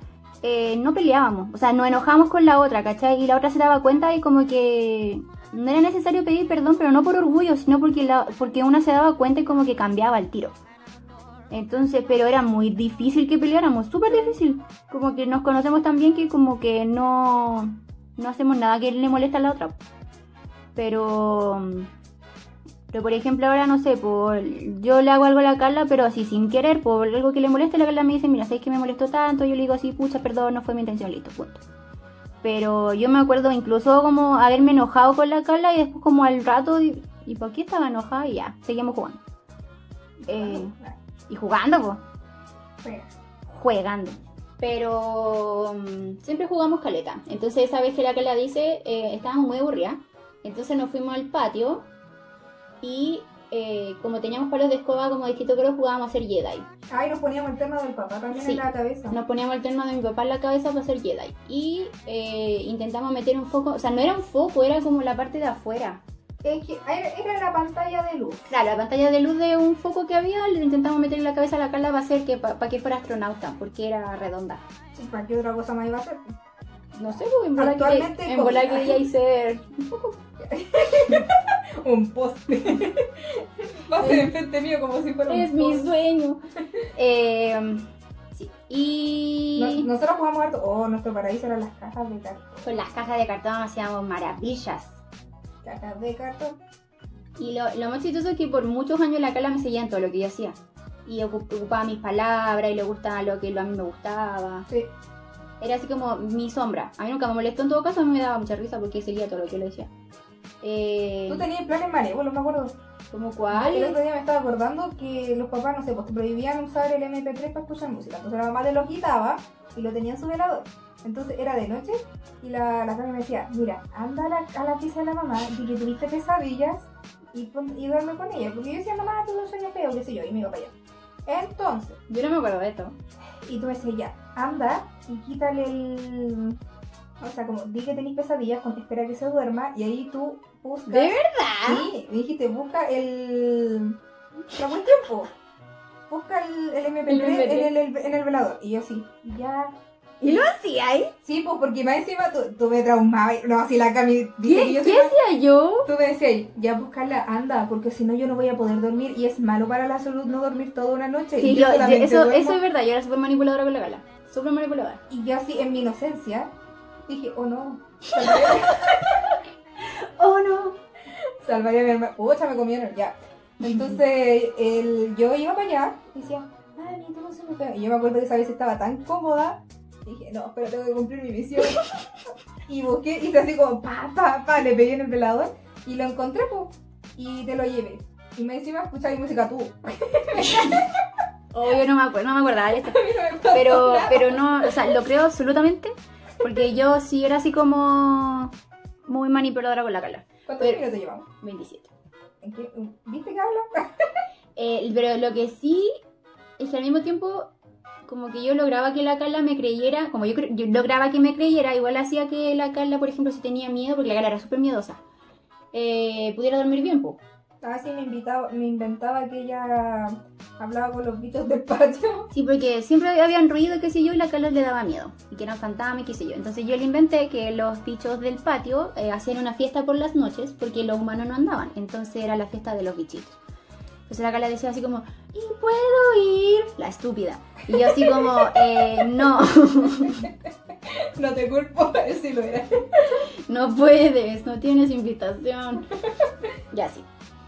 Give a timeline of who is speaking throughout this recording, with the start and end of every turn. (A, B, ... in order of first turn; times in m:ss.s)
0:00.4-0:10.6 A
0:11.5-0:19.8 A
0:14.1-0:14.4 B
0:20.8-0:21.9 A
0:22.9-0:31.6 A
0:32.4-0:39.2 A
0:40.2-0:41.0 B
0:40.3-0:40.8 A
0:41.3-0:42.0 A
0:42.8-0:43.1 B
0:43.5-0:51.9 A
0:52.8-0:56.7 A
0:56.9-0:59.2 B
0:58.3-1:06.0 A
1:06.4-1:08.5 B
1:08.5-1:14.6 A
1:14.9-1:16.3 B
1:17.0-1:20.1 A
1:17.6-1:19.0 B
1:20.4-1:25.9 B
1:24.0-1:24.3 A
1:25.3-1:26.4 A
1:27.0-1:29.9 A
1:29.6-1:32.7 B
1:32.6-1:35.0 A
1:35.6-1:36.6 B
1:37.4-1:44.7 A
1:45.6-1:49.9 A
1:50.6-1:51.4 A
1:51.3-1:52.8 B
1:53.1-1:54.0 A
1:53.5-2:10.7 B
2:11.2-2:12.0 B
2:12.1-2:13.0 A
2:13.4-2:16.6 B
2:17.2-2:24.0 B
2:20.9-2:21.9 A
2:24.5-2:25.3 B
2:26.1-2:30.4 B
2:27.1-2:27.7 A
2:30.2-2:31.1 A
2:31.2-2:35.2 B
2:34.4-2:35.9 A
2:35.9-2:42.6 B
2:41.4-2:45.0 A
2:45.1-2:46.5 B
2:47.1-2:49.4 B
2:48.1-2:49.2 A
2:49.8-2:50.8 A
2:51.4-3:01.8 B
2:53.6-2:54.0 A
3:02.7-3:11.1 B
3:10.4-3:10.8 A
3:11.5-3:13.0 A
3:12.8-3:15.0 B
3:13.5-3:18.5 A
3:19.1-3:20.8 A
3:20.5-3:21.3 B
3:21.4-3:21.9 A
3:22.4-3:24.2 B
3:24.6-3:26.0 A
3:26.6-3:27.5 A
3:28.1-3:35.0 A
3:35.7-3:37.2 A
3:37.6-3:42.3 B
3:42.3-3:53.4 A
3:54.1-4:00.3 A
3:57.7-3:59.1 B
3:59.9-4:00.3 B
4:00.8-4:03.2 B
4:03.4-4:05.9 A
4:06.0-4:06.3 B
4:06.7-4:07.1 A